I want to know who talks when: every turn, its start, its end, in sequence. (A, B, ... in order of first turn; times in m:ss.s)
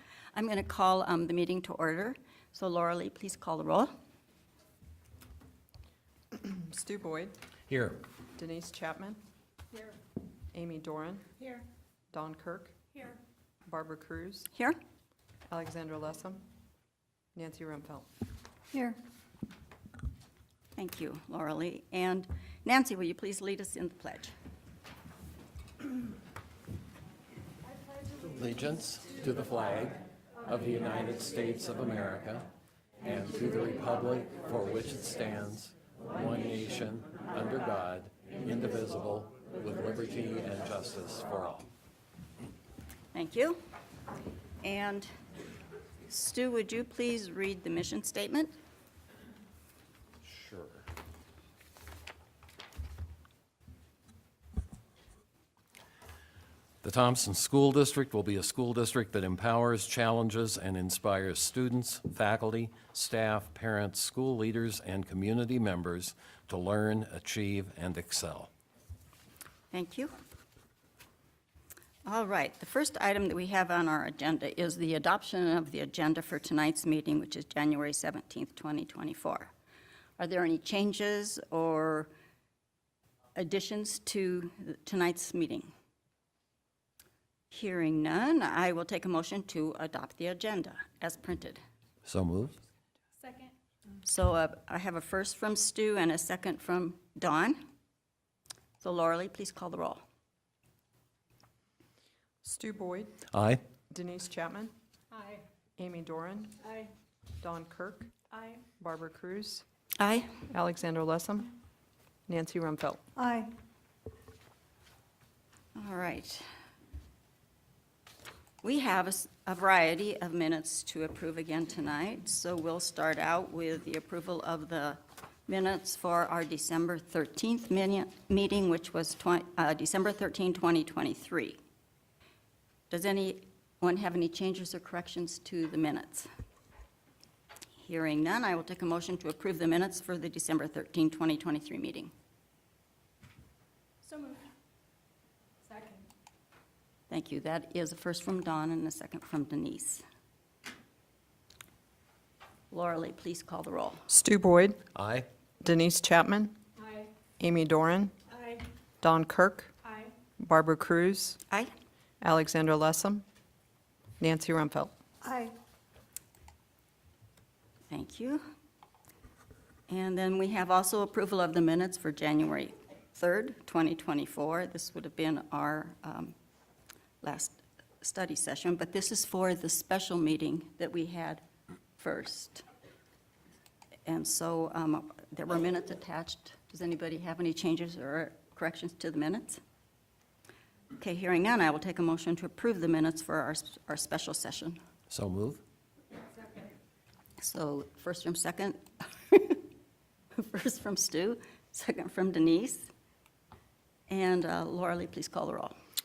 0:00.3-0:04.0 A
0:06.3-0:07.4 B
0:07.7-0:08.0 C
0:08.3-0:09.2 B
0:10.5-0:11.3 B
0:11.4-0:11.6 D
0:12.1-0:12.8 B
0:12.9-0:13.2 D
0:13.7-0:14.5 B
0:15.5-0:16.5 B
0:17.4-0:18.1 B
0:20.8-0:24.3 A
0:28.4-0:32.5 C
0:33.0-0:41.7 C
0:43.1-0:43.6 A
0:44.6-0:45.1 A
0:46.1-0:48.6 A
0:50.2-0:50.8 C
0:56.8-1:08.5 C
1:09.7-1:10.1 A
1:12.0-1:19.5 A
1:20.2-1:22.1 A
1:23.4-1:25.7 A
1:27.5-1:31.6 A
1:32.0-1:32.6 C
1:33.2-1:33.5 D
1:34.0-1:37.6 A
1:38.8-1:40.0 A
1:42.4-1:43.2 B
1:43.3-1:43.6 C
1:43.9-1:44.7 B
1:45.1-1:45.4 D
1:45.8-1:46.6 B
1:46.6-1:46.9 D
1:47.4-1:48.1 B
1:48.3-1:48.6 D
1:48.8-1:49.6 B
1:50.0-1:50.4 A
1:50.5-1:51.5 B
1:52.3-1:53.0 B
1:53.2-1:53.5 D
1:55.8-1:56.5 A
1:58.6-2:11.6 A
2:12.9-2:16.3 A
2:17.8-2:22.1 A
2:24.0-2:24.4 D
2:25.6-2:26.1 D
2:27.1-2:30.0 A
2:32.7-2:34.0 A
2:34.1-2:34.8 B
2:35.0-2:35.3 C
2:35.6-2:36.5 B
2:36.8-2:37.1 D
2:37.4-2:38.1 B
2:38.3-2:38.7 D
2:39.0-2:39.7 B
2:39.8-2:40.1 D
2:40.4-2:41.4 B
2:42.2-2:43.2 B
2:44.2-2:45.0 B
2:45.2-2:45.6 D
2:47.9-2:48.4 A
2:49.9-2:56.4 A
2:57.2-3:01.4 A
3:02.0-3:02.6 A
3:04.1-3:09.6 A
3:11.0-3:14.8 A
3:15.1-3:15.6 C
3:16.4-3:16.7 D
3:17.4-3:19.6 A
3:20.3-3:22.9 A
3:24.1-3:25.8 A